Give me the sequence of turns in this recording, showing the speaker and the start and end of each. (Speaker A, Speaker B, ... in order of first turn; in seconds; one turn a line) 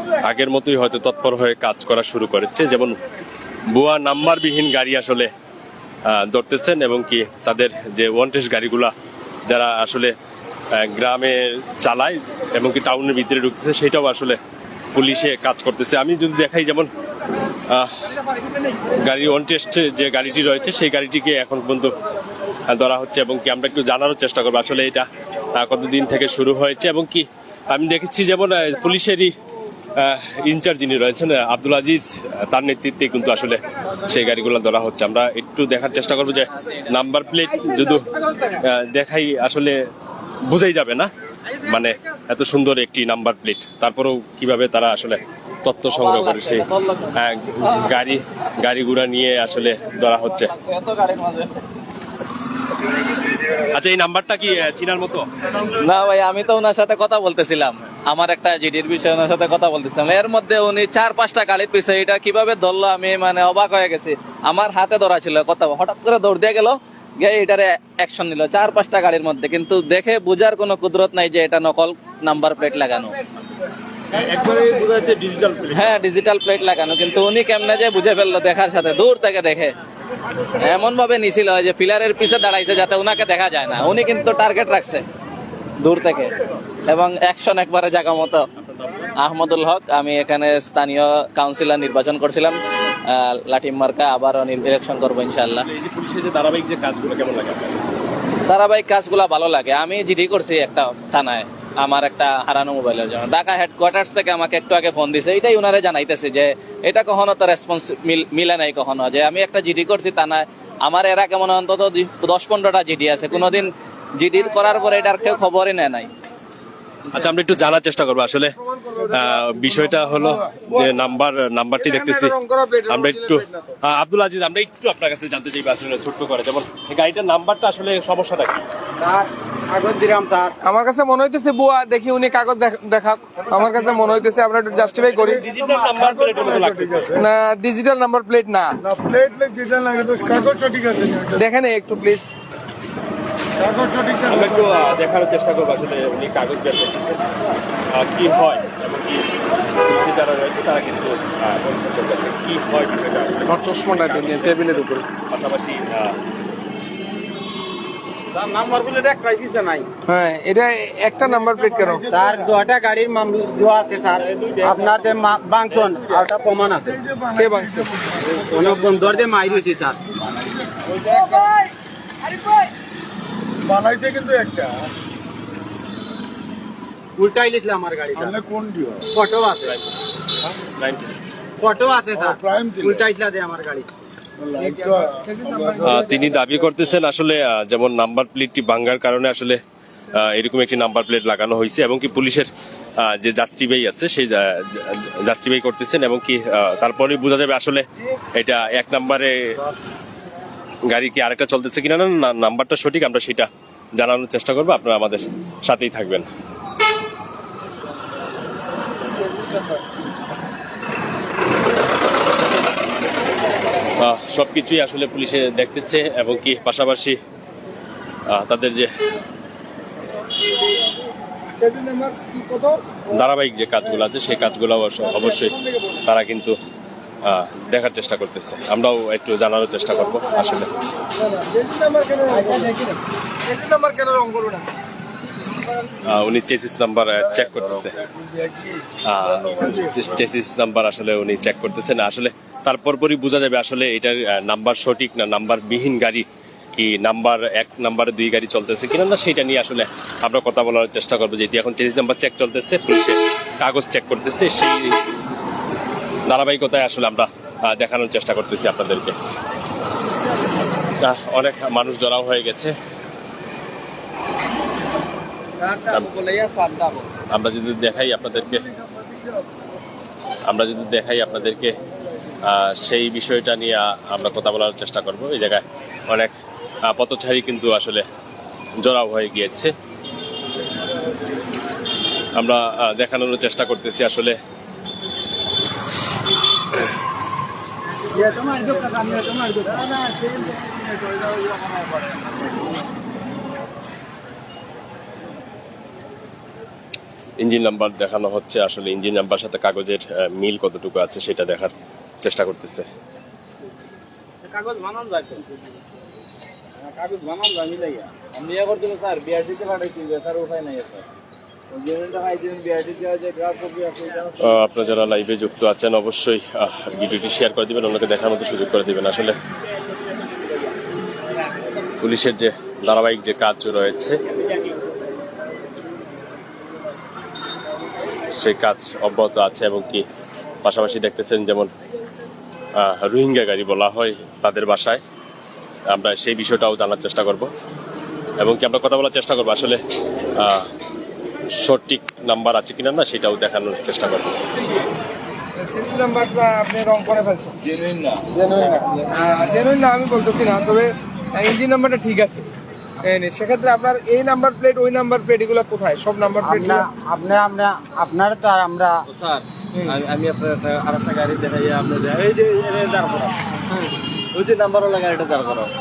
Speaker A: 0.2-3.0
Speaker A: 3.7-5.3
Speaker A: 6.1-8.9
Speaker A: 9.5-10.1
Speaker A: 10.8-14.4
Speaker A: 14.9-16.9
Speaker A: 17.7-18.0
Speaker A: 19.0-21.9
Speaker A: 22.7-25.1
Speaker A: 25.6-29.4
Speaker A: 30.0-39.8
Speaker A: 40.4-41.1
Speaker A: 41.6-50.5
Speaker B: 45.9-47.2
Speaker B: 50.2-51.6
Speaker A: 53.5-55.3
Speaker B: 55.6-73.2
Speaker B: 74.1-79.7
Speaker B: 80.6-85.1
Speaker B: 85.8-86.4
Speaker B: 86.9-88.5
Speaker A: 88.6-89.1
Speaker B: 89.2-95.7
Speaker A: 95.5-97.8
Speaker B: 98.5-116.1
Speaker A: 117.1-122.4
Speaker C: 118.6-121.0
Speaker C: 121.8-123.8
Speaker A: 122.9-128.7
Speaker D: 129.0-130.6
Speaker C: 130.6-135.4
Speaker A: 135.1-137.2
Speaker E: 135.9-137.2
Speaker C: 137.1-138.8
Speaker E: 138.8-141.4
Speaker C: 141.3-142.3
Speaker E: 143.6-144.5
Speaker A: 144.2-147.2
Speaker A: 147.9-156.2
Speaker C: 153.5-155.1
Speaker B: 158.5-159.8
Speaker C: 160.1-162.1
Speaker E: 161.5-161.9
Speaker D: 162.1-167.0
Speaker E: 167.1-168.3
Speaker C: 167.4-168.0
Speaker D: 168.2-170.0
Speaker E: 173.7-174.7
Speaker D: 177.2-178.4
Speaker E: 178.2-179.1
Speaker D: 179.1-179.8
Speaker A: 180.5-181.1
Speaker D: 181.6-183.9
Speaker E: 182.2-183.1
Speaker E: 184.4-186.1
Speaker C: 184.6-186.3
Speaker A: 185.8-189.6
Speaker A: 190.1-192.5
Speaker A: 193.0-199.6
Speaker A: 200.9-206.3
Speaker C: 209.1-209.8
Speaker A: 214.0-217.2
Speaker A: 218.3-218.9
Speaker C: 221.6-222.8
Speaker A: 223.1-226.6
Speaker C: 223.8-224.1
Speaker C: 225.0-226.0
Speaker A: 227.3-230.7
Speaker C: 231.1-232.7
Speaker D: 232.3-233.0
Speaker C: 233.4-234.7
Speaker A: 236.0-238.0
Speaker C: 238.1-240.1
Speaker A: 239.1-255.0
Speaker A: 256.3-259.2
Speaker A: 261.0-262.8
Speaker C: 265.6-267.1
Speaker A: 265.9-266.1
Speaker A: 267.3-268.7
Speaker A: 270.5-271.8
Speaker A: 272.4-276.3
Speaker A: 276.9-278.1
Speaker A: 278.8-279.7
Speaker A: 282.4-284.4
Speaker D: 288.1-290.2
Speaker A: 297.4-302.9
Speaker B: 304.5-305.4
Speaker B: 306.8-311.1
Speaker B: 311.7-314.5
Speaker A: 314.4-319.4
Speaker A: 322.0-324.2
Speaker A: 328.4-330.1
Speaker A: 330.6-331.7
Speaker A: 332.8-335.0
Speaker A: 335.9-337.5
Speaker A: 338.4-339.8
Speaker A: 340.4-340.7
Speaker A: 341.6-344.4
Speaker C: 345.6-347.6
Speaker C: 348.3-352.5
Speaker C: 353.0-356.8
Speaker D: 356.4-359.1
Speaker B: 359.1-363.3
Speaker C: 363.7-364.0
Speaker B: 364.4-365.5